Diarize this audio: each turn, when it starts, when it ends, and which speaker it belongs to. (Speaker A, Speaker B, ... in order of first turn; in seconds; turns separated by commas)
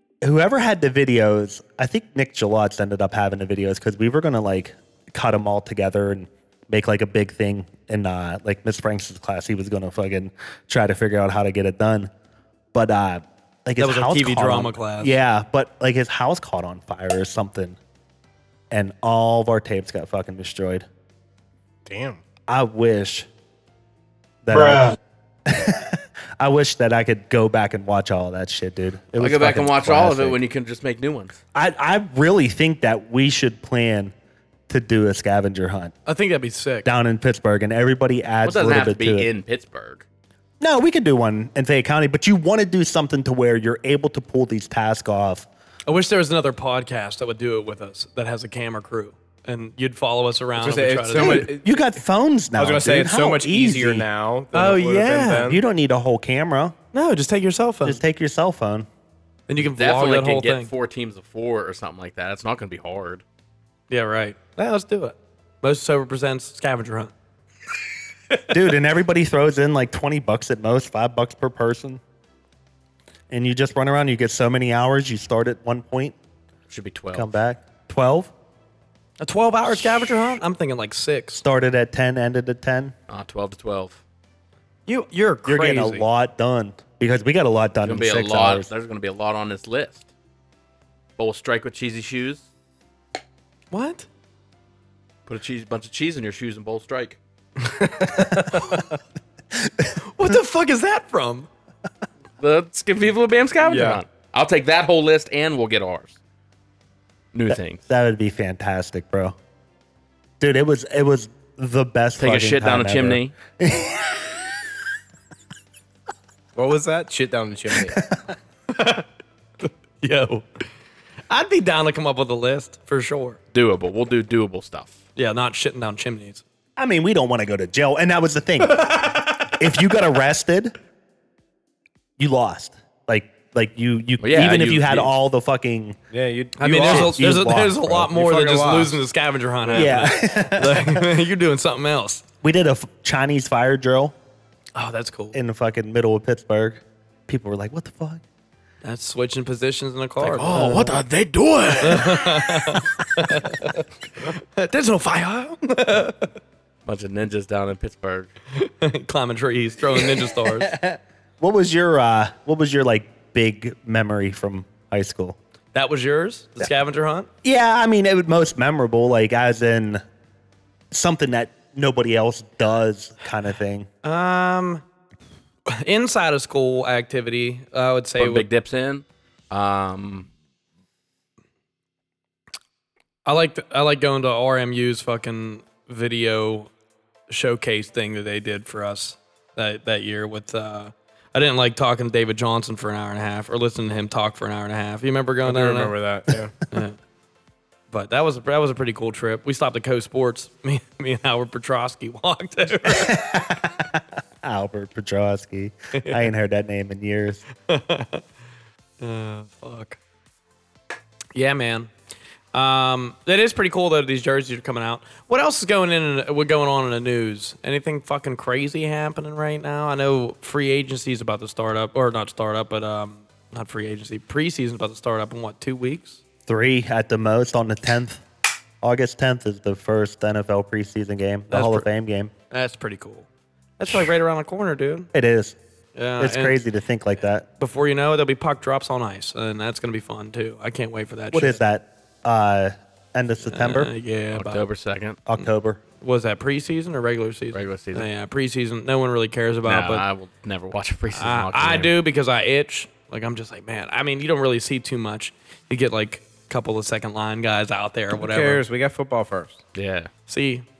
Speaker A: 0.2-12.1, Speaker A: 12.7-17.8, Speaker B: 13.8-15.2, Speaker A: 18.7-20.9, Speaker C: 21.9-22.2, Speaker A: 22.5-23.3, Speaker A: 24.4-30.4, Speaker D: 29.2-31.4, Speaker A: 31.5-34.1, Speaker A: 34.7-36.0, Speaker B: 36.1-36.9, Speaker A: 36.8-39.3, Speaker D: 38.4-40.0, Speaker A: 40.6-45.5, Speaker B: 45.9-51.5, Speaker C: 50.6-51.8, Speaker A: 51.1-54.1, Speaker C: 52.6-55.6, Speaker B: 54.5-55.5, Speaker A: 55.5-56.8, Speaker B: 56.9-58.0, Speaker A: 57.8-58.9, Speaker B: 59.5-60.7, Speaker D: 59.6-63.2, Speaker B: 63.9-67.1, Speaker A: 68.5-72.0, Speaker A: 73.3-76.2, Speaker D: 76.7-77.3, Speaker A: 77.1-78.3, Speaker B: 79.2-81.4, Speaker A: 81.4-82.9, Speaker D: 83.1-84.0, Speaker B: 84.9-86.1, Speaker A: 85.5-88.7, Speaker D: 87.8-90.1, Speaker D: 91.2-92.4, Speaker B: 93.7-94.1, Speaker D: 95.3-97.2, Speaker C: 97.6-98.9, Speaker B: 100.0-101.5, Speaker D: 102.4-106.2, Speaker C: 103.6-104.0, Speaker D: 107.3-107.8, Speaker A: 107.5-109.4, Speaker A: 110.4-114.3, Speaker D: 112.2-113.3, Speaker C: 116.5-118.0, Speaker A: 117.9-118.2, Speaker B: 118.7-119.1, Speaker B: 119.6-120.6, Speaker B: 121.3-123.4, Speaker D: 123.5-125.0, Speaker B: 125.2-126.4, Speaker A: 126.8-130.8, Speaker A: 132.2-136.0, Speaker D: 134.2-135.1, Speaker C: 136.1-137.2, Speaker B: 136.6-142.2, Speaker A: 136.7-138.1, Speaker C: 138.1-139.0, Speaker A: 139.7-141.1, Speaker A: 142.4-144.2, Speaker B: 144.8-145.4, Speaker A: 145.3-148.2, Speaker B: 148.8-150.6, Speaker D: 150.2-152.5, Speaker A: 150.4-151.0, Speaker B: 151.8-156.3, Speaker D: 156.8-158.3, Speaker B: 158.5-160.8, Speaker A: 160.4-165.4, Speaker B: 165.8-167.3, Speaker A: 167.4-170.0, Speaker A: 170.9-173.9, Speaker B: 174.0-174.8, Speaker B: 175.7-178.5, Speaker D: 178.2-180.3, Speaker B: 183.3-186.7, Speaker B: 187.3-195.9, Speaker C: 195.4-196.5, Speaker B: 196.7-197.0, Speaker B: 197.9-203.2, Speaker A: 202.9-207.4, Speaker B: 207.7-208.2, Speaker B: 209.0-210.0, Speaker B: 211.3-211.9, Speaker B: 212.5-226.2, Speaker A: 226.5-228.2, Speaker A: 228.8-232.3, Speaker B: 231.5-231.9, Speaker B: 232.5-233.3, Speaker B: 233.8-235.1, Speaker A: 235.1-235.6, Speaker B: 236.0-236.6, Speaker A: 236.2-237.5, Speaker B: 237.6-241.6, Speaker A: 241.3-243.9, Speaker B: 243.4-244.7, Speaker D: 244.3-245.2, Speaker A: 245.3-245.8, Speaker B: 246.0-250.1, Speaker D: 247.5-248.1, Speaker D: 249.7-251.9, Speaker B: 251.1-258.6, Speaker C: 258.1-259.6, Speaker D: 259.8-260.1, Speaker B: 260.3-260.7